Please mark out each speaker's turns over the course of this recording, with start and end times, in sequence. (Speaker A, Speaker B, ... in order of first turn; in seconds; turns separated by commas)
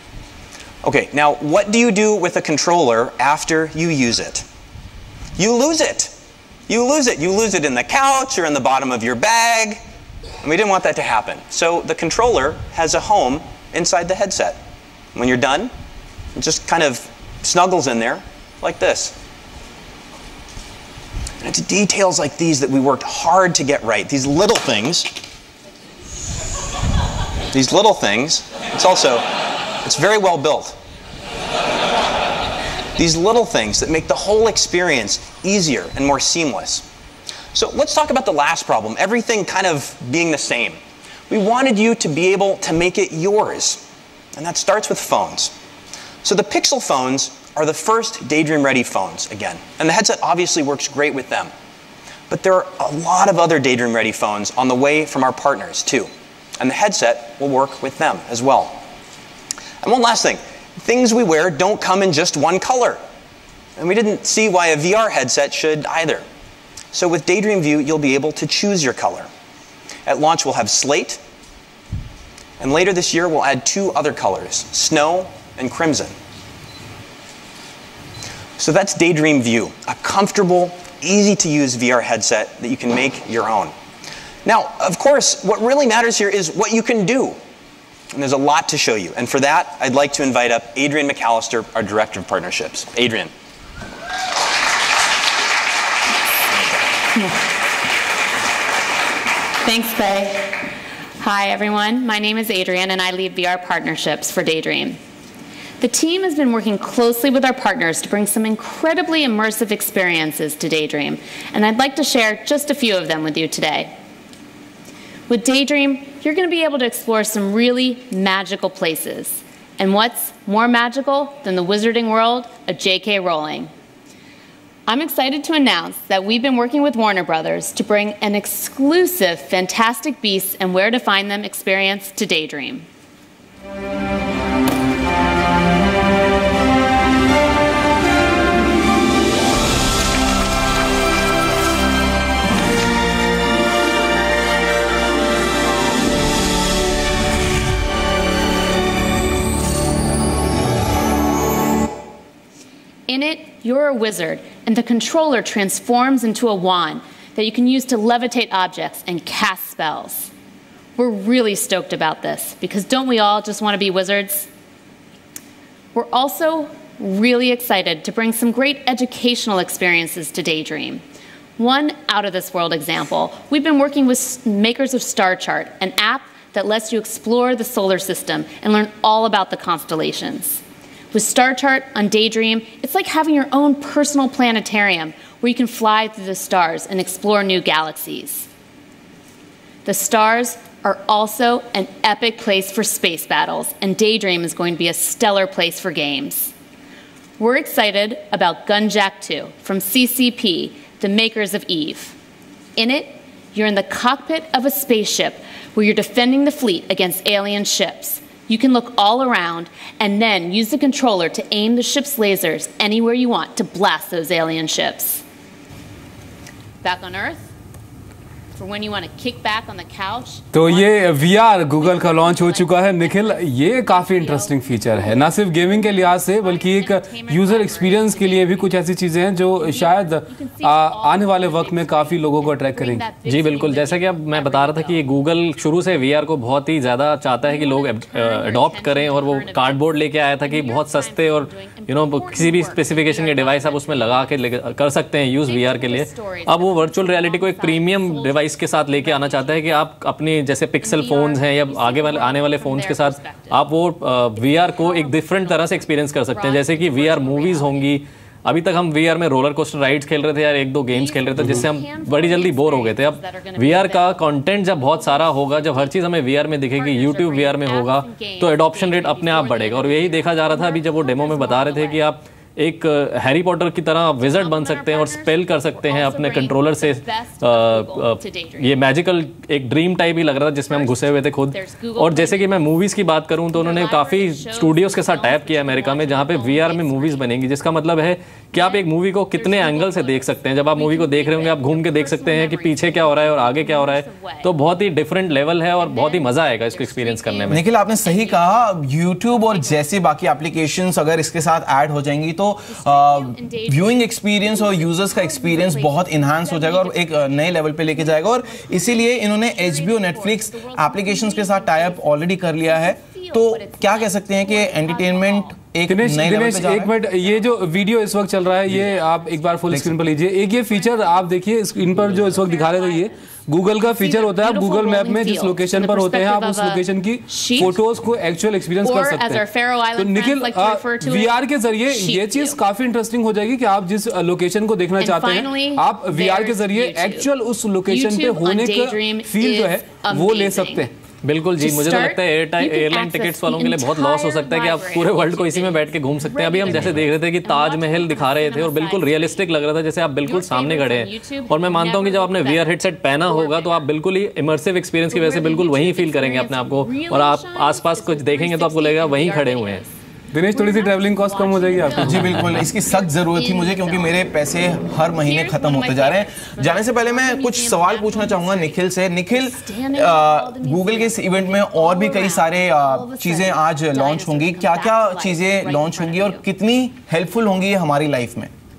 Speaker A: 0.8-4.5, Speaker A: 5.4-6.2, Speaker A: 6.7-9.8, Speaker A: 10.4-14.6, Speaker A: 15.2-15.7, Speaker A: 16.4-19.2, Speaker A: 21.4-25.1, Speaker A: 27.5-29.3, Speaker A: 29.8-30.8, Speaker A: 33.0-36.9, Speaker A: 37.5-40.8, Speaker A: 41.3-43.8, Speaker A: 44.4-45.5, Speaker A: 46.2-51.5, Speaker A: 52.3-58.8, Speaker A: 59.8-63.0, Speaker A: 63.8-66.3, Speaker A: 66.9-69.3, Speaker A: 70.1-71.2, Speaker A: 72.6-76.2, Speaker A: 78.6-83.8, Speaker A: 84.5-87.4, Speaker A: 88.1-93.3, Speaker B: 97.2-97.4, Speaker B: 99.6-105.0, Speaker B: 105.8-113.9, Speaker B: 115.3-123.7, Speaker B: 124.9-132.9, Speaker B: 153.1-160.3, Speaker B: 161.0-164.5, Speaker B: 165.9-171.0, Speaker B: 171.6-188.5, Speaker B: 189.8-196.5, Speaker B: 197.4-202.2, Speaker B: 202.8-215.2, Speaker B: 216.8-217.5, Speaker B: 218.6-235.1, Speaker C: 220.5-233.1, Speaker D: 233.3-297.6, Speaker B: 237.4-244.4, Speaker B: 245.4-249.8, Speaker B: 250.8-253.7, Speaker B: 254.4-258.0, Speaker B: 260.9-266.0, Speaker B: 266.7-272.1, Speaker B: 274.2-278.8, Speaker B: 280.6-282.7, Speaker B: 283.4-287.3, Speaker B: 288.5-294.5, Speaker B: 295.8-298.8, Speaker E: 297.5-316.9, Speaker B: 299.3-300.0, Speaker B: 302.7-315.6, Speaker C: 315.9-329.4, Speaker B: 316.6-327.8, Speaker B: 328.8-332.6, Speaker C: 330.0-340.9, Speaker B: 335.0-337.3, Speaker B: 337.9-340.9, Speaker D: 341.2-359.8, Speaker B: 341.6-349.6, Speaker B: 350.2-353.9, Speaker B: 355.1-360.0, Speaker C: 360.3-362.4, Speaker B: 360.5-364.2, Speaker E: 362.0-378.5, Speaker D: 362.0-362.4, Speaker B: 365.2-376.4